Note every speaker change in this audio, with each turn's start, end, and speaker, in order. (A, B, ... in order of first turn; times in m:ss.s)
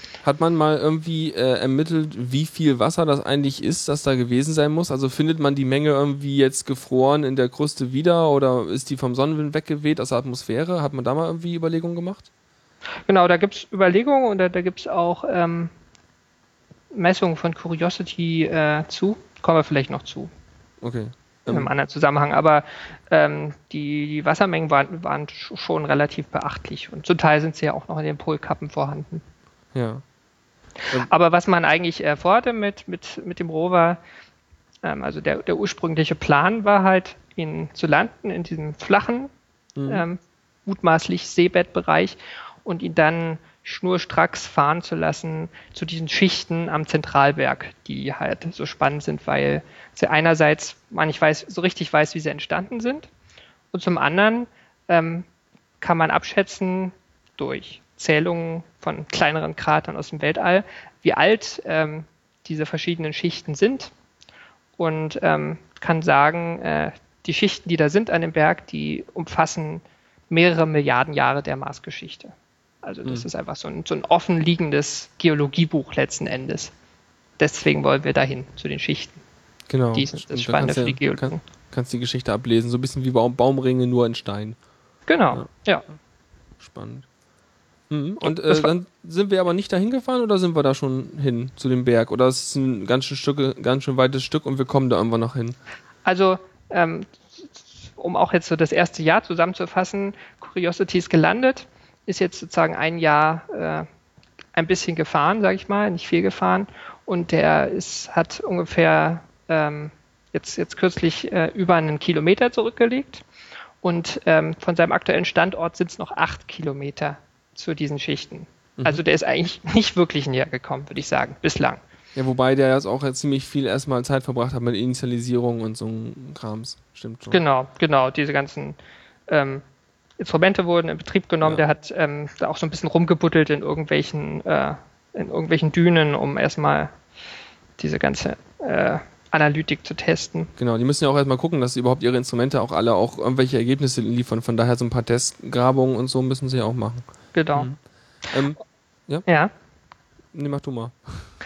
0:00.2-0:12.3 A
0:13.1-0:15.7 B
0:16.9-0:20.3 B
0:20.8-0:21.7 A
0:21.5-0:29.2 B
0:29.7-0:30.0 A
0:30.8-0:34.0 B
0:34.8-0:39.3 B
0:39.8-0:40.0 A
0:39.9-0:53.1 B
0:53.7-0:55.2 B
0:55.8-1:03.9 B
1:04.8-1:16.7 B
1:17.4-1:19.2 B
1:19.7-1:24.6 A
1:19.9-1:21.4 B
1:25.1-1:25.8 B
1:26.6-1:27.0 A
1:27.9-1:35.6 A
1:28.2-1:28.7 B
1:36.0-1:43.9 B
1:44.5-1:53.2 B
1:53.8-2:01.8 B
2:02.1-2:07.4 A
2:07.3-2:08.8 B
2:09.3-2:09.6 B
2:10.2-2:16.9 B
2:17.8-2:20.5 B
2:20.6-2:27.8 A
2:27.3-2:27.7 B
2:28.3-2:29.2 A
2:29.3-2:29.5 B
2:30.3-2:31.3 A